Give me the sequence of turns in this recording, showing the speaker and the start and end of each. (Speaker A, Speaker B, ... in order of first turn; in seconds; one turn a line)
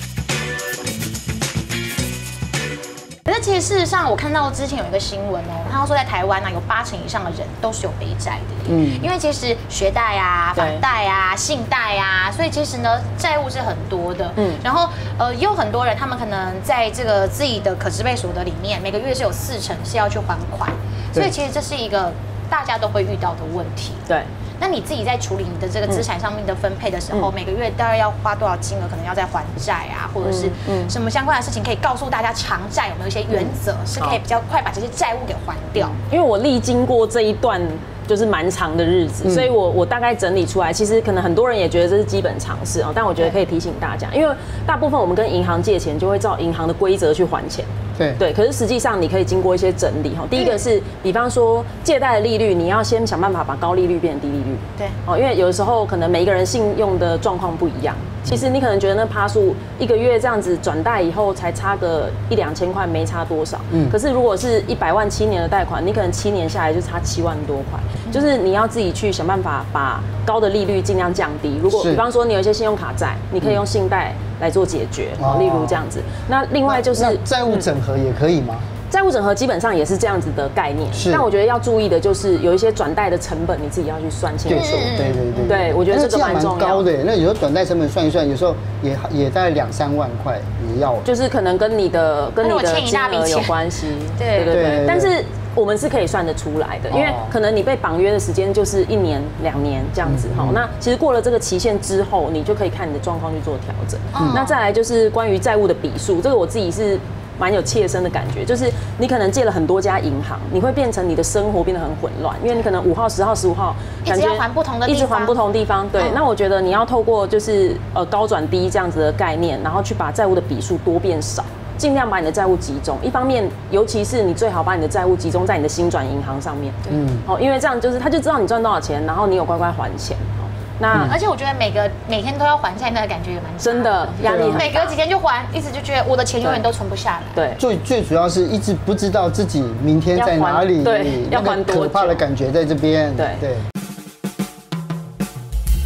Speaker A: 3.3-24.1
Speaker B: 8.7-9.1
Speaker C: 10.6-10.8
Speaker A: 24.6-36.0
Speaker C: 30.2-30.9
Speaker C: 33.3-34.2
Speaker C: 35.8-77.7
Speaker B: 39.2-39.5
Speaker B: 71.7-72.0
Speaker B: 75.2-75.8
Speaker B: 76.7-78.7
Speaker C: 78.9-84.9
Speaker B: 81.0-81.3
Speaker B: 84.5-91.1
Speaker A: 84.5-85.6
Speaker C: 85.5-86.8
Speaker C: 91.0-131.2
Speaker A: 92.4-94.6
Speaker B: 94.5-95.1
Speaker B: 96.9-97.3
Speaker B: 100.0-100.6
Speaker A: 104.1-104.6
Speaker B: 104.1-104.4
Speaker A: 114.1-115.4
Speaker B: 126.9-127.3
Speaker A: 130.9-137.4
Speaker C: 133.6-135.0
Speaker B: 134.3-134.7
Speaker C: 137.3-137.6
Speaker B: 137.6-143.6
Speaker C: 140.2-142.2
Speaker C: 143.2-143.4